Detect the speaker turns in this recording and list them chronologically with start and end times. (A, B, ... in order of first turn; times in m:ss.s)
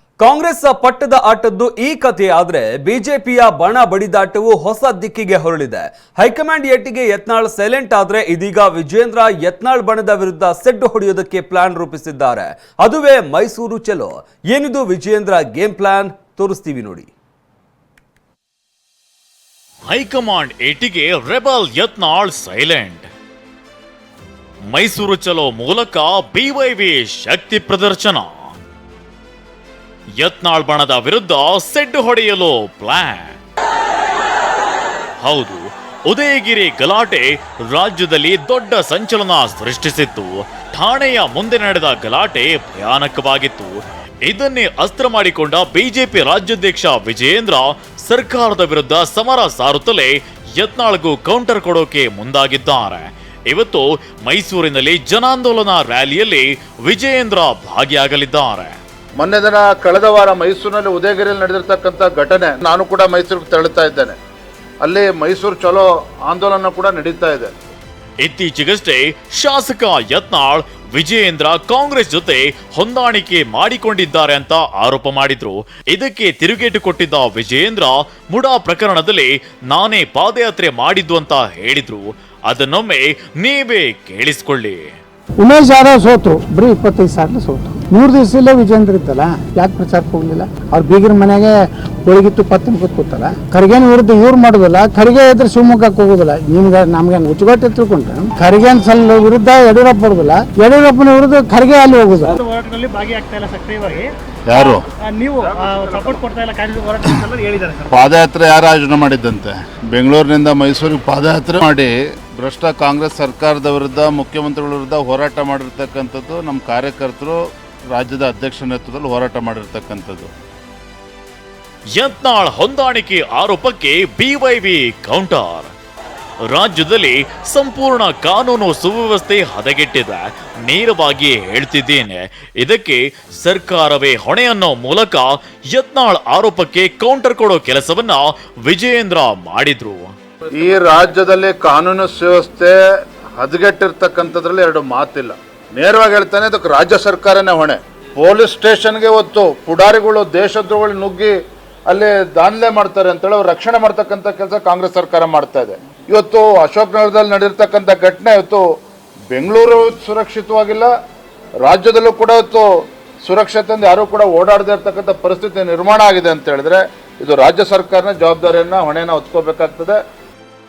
0:00.2-0:17.1 A
0:19.8-0:23.0 B
0:24.7-0:28.6 B
0:30.2-0:33.4 B
0:35.2-0:58.8 B
0:59.2-1:04.2 C
1:04.8-1:07.5 C
1:08.2-1:24.9 B
1:25.4-1:42.4 D
1:42.3-1:47.9 E
1:44.5-1:44.8 C
1:47.9-2:00.3 C
2:02.0-2:05.7 B
2:06.4-2:20.1 B
2:20.6-2:22.7 C
2:23.4-2:31.3 C
2:31.9-2:38.6 C
2:39.3-2:40.9 C
2:41.6-2:42.6 C
2:43.2-2:50.0 C